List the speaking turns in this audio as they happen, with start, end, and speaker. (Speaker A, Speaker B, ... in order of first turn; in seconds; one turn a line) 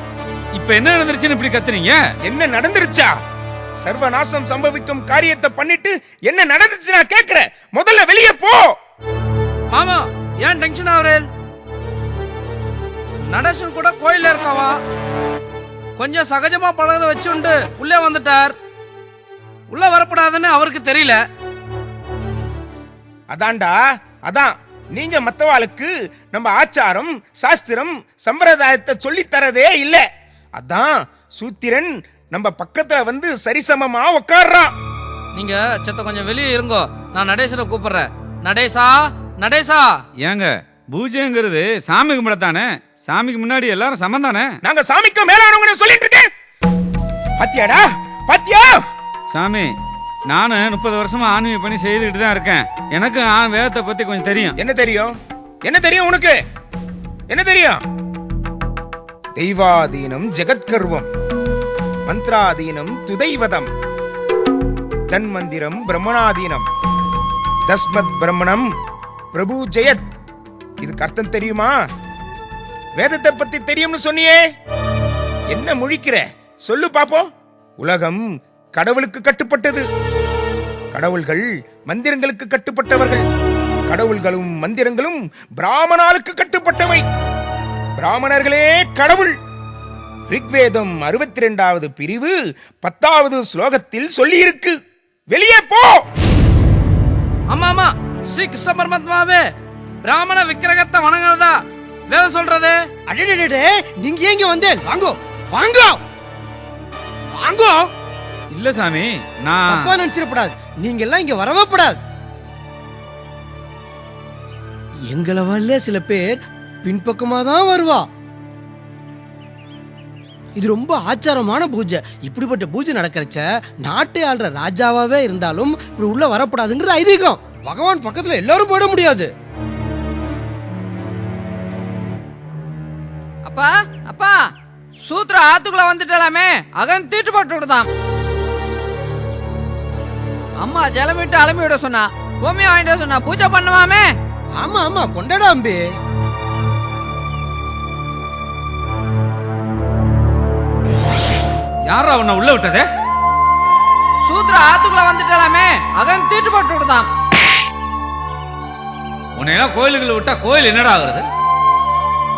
Speaker A: 0.6-2.0
Speaker B: 2.2-3.1
Speaker B: 3.8-8.8
Speaker C: 9.7-11.3
Speaker C: 13.3-14.8
Speaker C: 16.0-18.6
Speaker C: 19.7-21.2
Speaker B: 23.3-30.0
Speaker B: 30.6-34.7
Speaker C: 35.3-39.9
Speaker A: 40.2-44.5
Speaker B: 44.6-46.3
Speaker B: 47.4-48.8
Speaker A: 49.3-49.7
Speaker A: 50.3-54.6
Speaker B: 54.6-55.1
Speaker B: 55.6-56.4
Speaker B: 57.3-57.8
Speaker B: 59.4-61.1
Speaker B: 62.1-63.7
Speaker B: 65.1-66.7
Speaker B: 67.7-68.7
Speaker B: 69.3-70.0
Speaker B: 70.8-71.8
Speaker B: 73.0-74.4
Speaker B: 75.5-77.3
Speaker B: 77.8-79.9
Speaker B: 80.9-83.2
Speaker B: 83.9-87.0
Speaker B: 88.0-89.3
Speaker B: 90.3-94.8
Speaker B: 95.3-96.0
Speaker C: 97.5-99.4
Speaker C: 100.0-101.6
Speaker C: 102.1-102.8
Speaker D: 103.1-106.0
Speaker D: 107.3-107.9
Speaker A: 108.5-109.9
Speaker D: 109.7-112.0
Speaker D: 115.1-118.0
Speaker D: 120.6-129.3
Speaker E: 133.4-134.4
Speaker E: 135.0-137.9
Speaker E: 140.6-144.1
Speaker D: 144.6-145.8
Speaker A: 151.9-152.9
Speaker E: 154.2-157.1
Speaker A: 159.4-161.3